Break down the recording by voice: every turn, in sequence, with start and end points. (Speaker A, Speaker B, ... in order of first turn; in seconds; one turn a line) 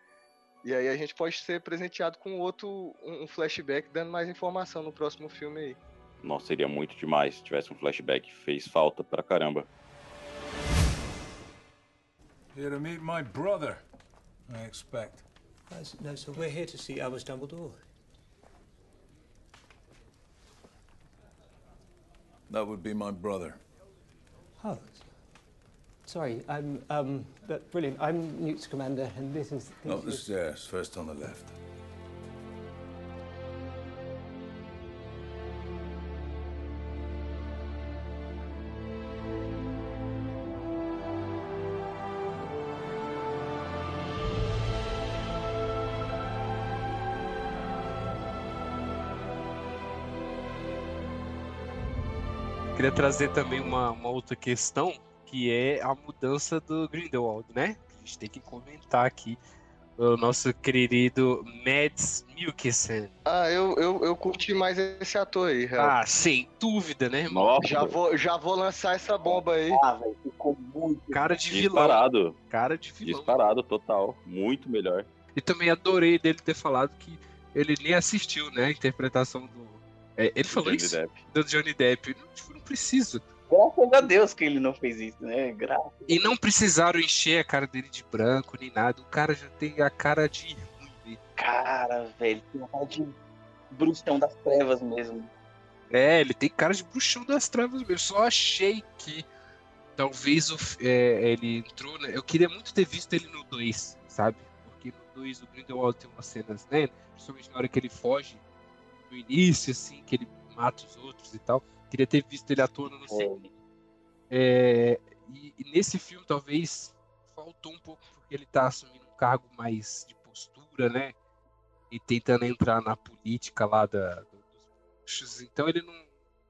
Speaker A: 0.6-5.8
Speaker B: 6.2-9.7
Speaker C: 12.5-13.8
Speaker C: 14.5-15.2
Speaker D: 15.7-17.8
Speaker C: 22.5-23.6
Speaker D: 24.6-25.3
Speaker D: 26.0-30.3
Speaker C: 29.8-31.6
Speaker E: 52.7-59.4
Speaker E: 60.0-63.1
Speaker A: 63.2-65.9
Speaker E: 65.8-67.5
Speaker B: 67.3-67.9
Speaker A: 67.6-69.8
Speaker F: 69.3-71.3
Speaker E: 71.1-73.5
Speaker B: 71.5-72.3
Speaker B: 73.0-75.1
Speaker E: 75.3-83.2
Speaker B: 80.5-81.2
Speaker F: 83.5-86.3
Speaker E: 86.1-91.2
Speaker F: 91.4-93.1
Speaker F: 93.7-95.3
Speaker E: 95.9-99.2
Speaker E: 100.0-108.4
Speaker E: 109.1-113.3
Speaker F: 113.1-113.5
Speaker E: 114.3-121.2
Speaker E: 121.9-124.4
Speaker E: 125.0-126.0